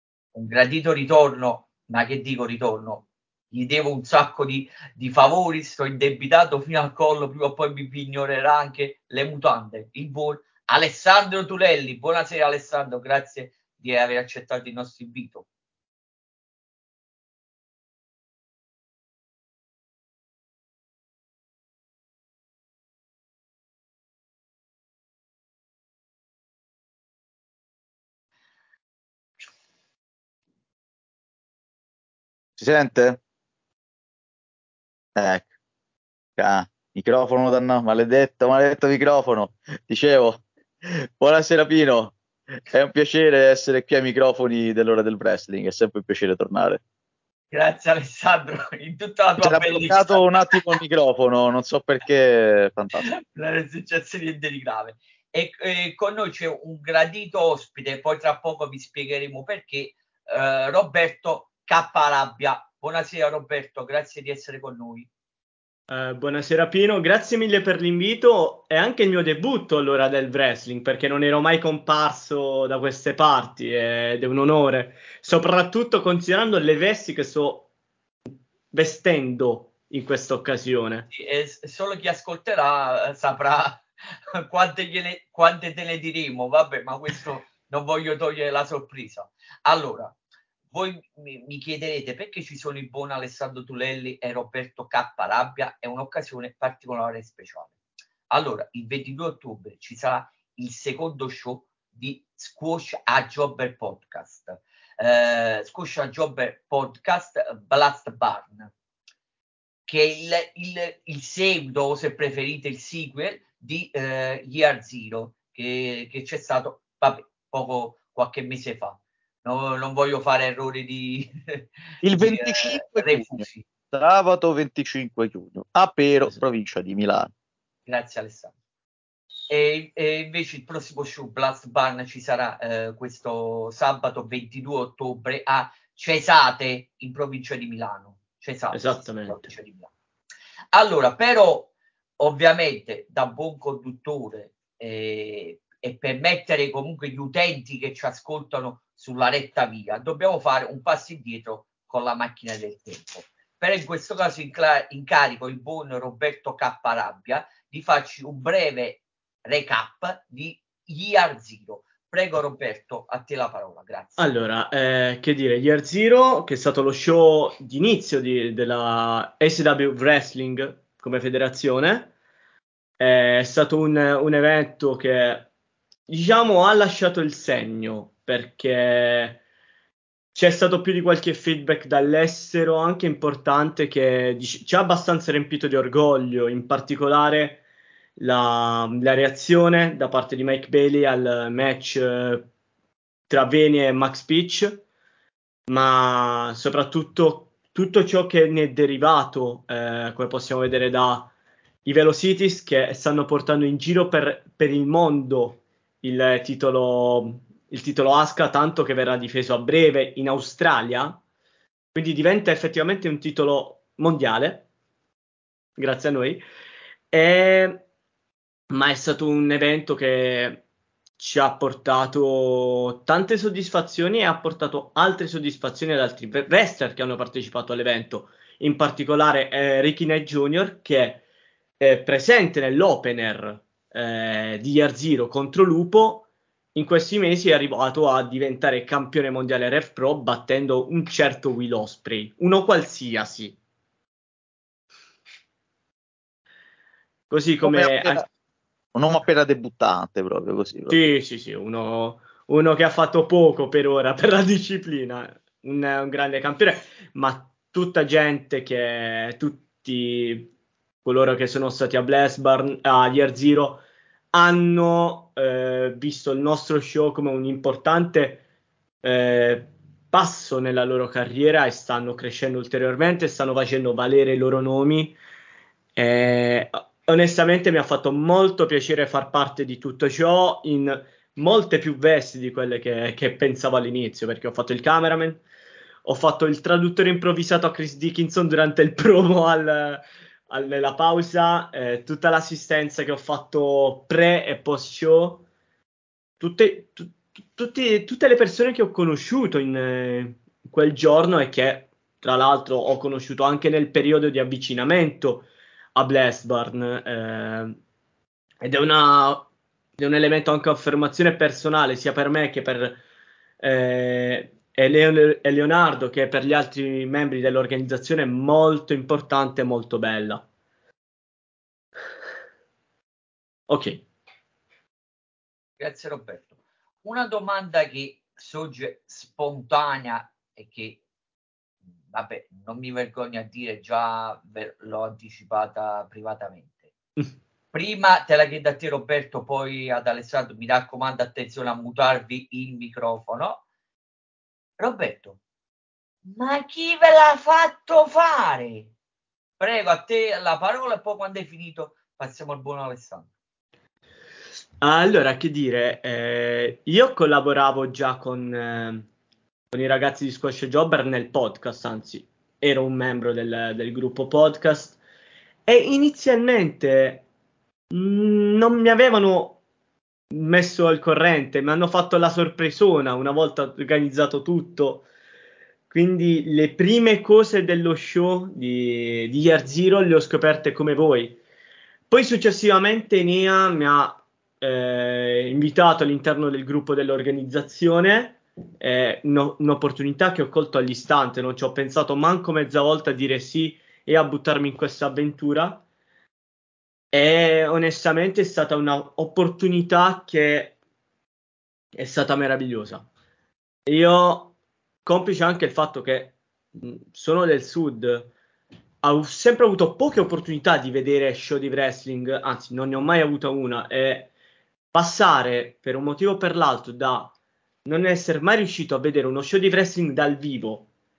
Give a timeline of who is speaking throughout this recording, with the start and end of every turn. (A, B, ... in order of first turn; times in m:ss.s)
0:00.3-0:15.4 A
0:32.6-0:33.2 B
0:35.2-0:35.5 B
0:36.4-0:42.2 B
0:42.7-0:46.8 B
0:47.5-0:50.7 A
0:49.4-0:53.1 B
0:53.0-1:05.1 A
1:05.9-1:17.7 C
1:18.3-1:21.1 C
1:21.1-1:30.1 A
1:30.7-1:37.7 A
1:38.3-1:48.7 A
1:49.9-2:03.6 A
2:02.0-2:07.3 B
2:07.9-2:08.5 A
2:09.5-2:19.9 A
2:18.7-2:19.5 C
2:20.7-2:44.2 A
2:44.2-2:52.1 C
2:53.0-2:55.5 C
2:56.1-2:59.4 C
3:00.3-3:07.6 C
3:08.2-3:12.5 C
3:13.3-3:14.8 C
3:15.7-3:21.3 C
3:21.8-3:31.2 C
3:31.9-3:34.7 C
3:35.8-3:36.4 C
3:37.1-3:37.8 C
3:38.7-3:40.6 C
3:41.2-3:51.2 C
3:51.8-4:03.6 C
4:07.3-4:08.2 C
4:07.6-4:08.3 B
4:08.9-4:11.0 B
4:10.9-4:20.5 C
4:21.0-4:28.4 C
4:29.0-4:35.2 C
4:36.0-4:45.4 C
4:46.0-4:55.4 C
4:56.4-5:07.8 C
5:08.6-5:13.0 C
5:13.6-5:20.4 C
5:23.7-5:24.0 C
5:25.8-5:31.0 A
5:32.1-5:36.9 A
5:37.7-5:43.6 A
5:44.8-5:45.4 A
5:46.2-5:48.9 A
5:49.6-5:53.3 A
5:54.8-5:59.1 C
5:59.7-6:05.0 C
6:05.7-6:07.2 C
6:07.9-6:09.6 C
6:10.3-6:15.1 C
6:15.9-6:21.4 C
6:22.1-6:35.8 C
6:37.1-6:40.8 C
6:41.9-6:43.0 C
6:43.8-6:48.3 C
6:49.0-6:54.3 C
6:54.9-6:57.3 C
6:57.8-7:00.9 C